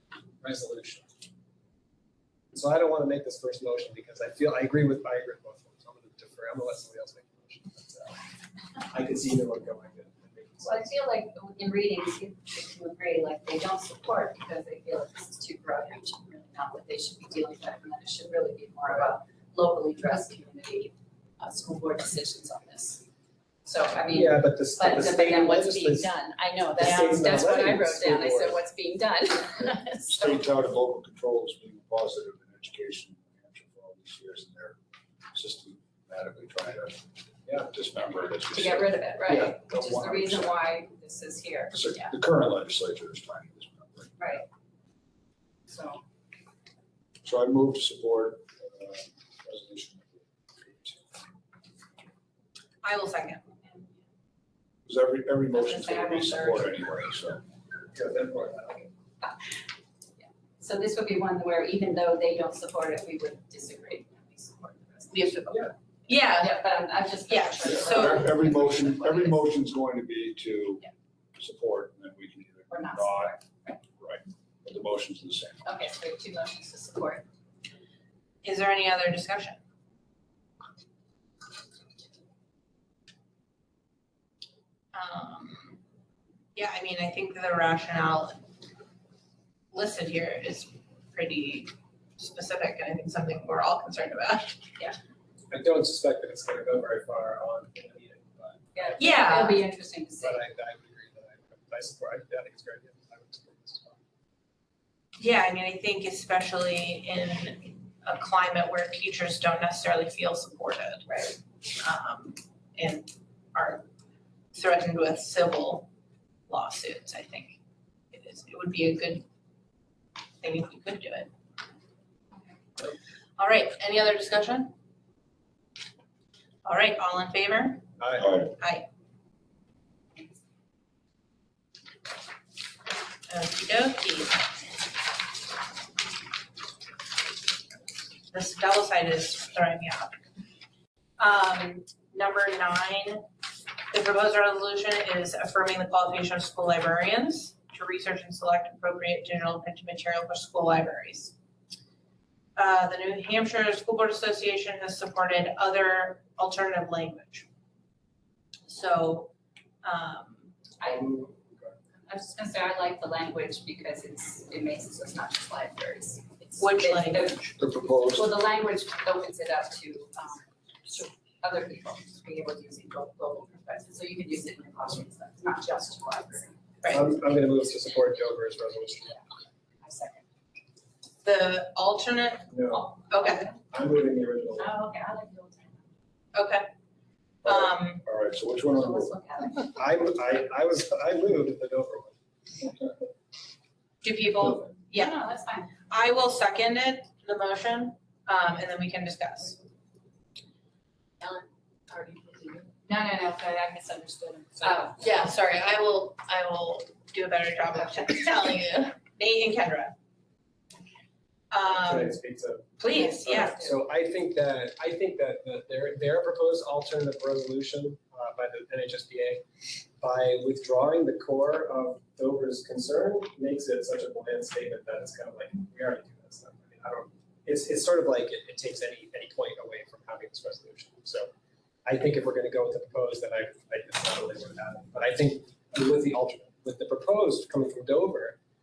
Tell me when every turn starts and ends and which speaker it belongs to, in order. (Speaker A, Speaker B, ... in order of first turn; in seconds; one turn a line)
Speaker A: 0.4-1.1
Speaker A: 2.5-8.2
Speaker A: 8.9-10.9
Speaker B: 10.7-23.0
Speaker B: 23.6-30.4
Speaker A: 24.1-26.1
Speaker A: 26.7-28.6
Speaker C: 26.8-27.2
Speaker D: 30.1-34.8
Speaker D: 35.3-37.0
Speaker D: 37.5-40.6
Speaker B: 38.5-42.1
Speaker D: 41.7-44.4
Speaker B: 44.2-44.5
Speaker B: 45.7-46.0
Speaker D: 47.2-51.0
Speaker C: 52.8-53.5
Speaker D: 54.9-57.4
Speaker B: 55.5-56.7
Speaker A: 57.9-58.9
Speaker B: 60.2-65.4
Speaker C: 65.1-66.7
Speaker B: 66.1-69.4
Speaker C: 67.3-68.2
Speaker D: 67.6-70.8
Speaker D: 71.4-73.4
Speaker B: 72.7-73.8
Speaker D: 74.0-75.7
Speaker B: 75.6-77.2
Speaker C: 78.4-79.6
Speaker C: 84.9-85.8
Speaker C: 86.5-88.4
Speaker C: 89.7-94.7
Speaker A: 95.5-99.4
Speaker B: 98.8-100.4
Speaker C: 99.0-99.6
Speaker A: 100.2-104.0
Speaker C: 105.2-111.1
Speaker B: 111.1-111.3
Speaker C: 111.8-113.8
Speaker C: 114.5-115.9
Speaker C: 116.5-117.6
Speaker C: 118.1-119.2
Speaker C: 120.4-121.3
Speaker C: 123.4-124.7
Speaker C: 126.6-128.8
Speaker A: 128.0-128.4
Speaker D: 128.2-128.5
Speaker C: 133.3-134.5
Speaker C: 138.3-140.2
Speaker C: 141.2-143.2
Speaker C: 143.9-151.3
Speaker C: 152.6-157.4
Speaker C: 158.7-159.3
Speaker C: 159.8-160.6
Speaker B: 160.8-161.1
Speaker A: 160.8-161.8
Speaker B: 162.1-167.5
Speaker C: 166.6-167.5
Speaker D: 167.6-168.3
Speaker B: 168.1-176.6
Speaker A: 176.9-179.2
Speaker B: 179.8-180.2
Speaker C: 181.2-183.5
Speaker A: 182.5-182.9
Speaker B: 182.8-183.6
Speaker A: 183.7-184.7
Speaker B: 184.6-185.9
Speaker C: 186.3-186.7
Speaker C: 187.4-188.0
Speaker D: 187.4-189.1
Speaker B: 188.7-189.7
Speaker A: 189.7-192.2
Speaker C: 194.0-195.2
Speaker B: 194.9-195.7
Speaker C: 195.9-199.6
Speaker B: 201.2-205.3
Speaker C: 204.6-209.9
Speaker B: 207.7-208.2
Speaker C: 211.5-212.2
Speaker A: 211.7-219.4
Speaker C: 212.8-213.7
Speaker B: 212.9-213.8
Speaker A: 220.0-231.3
Speaker A: 231.8-238.4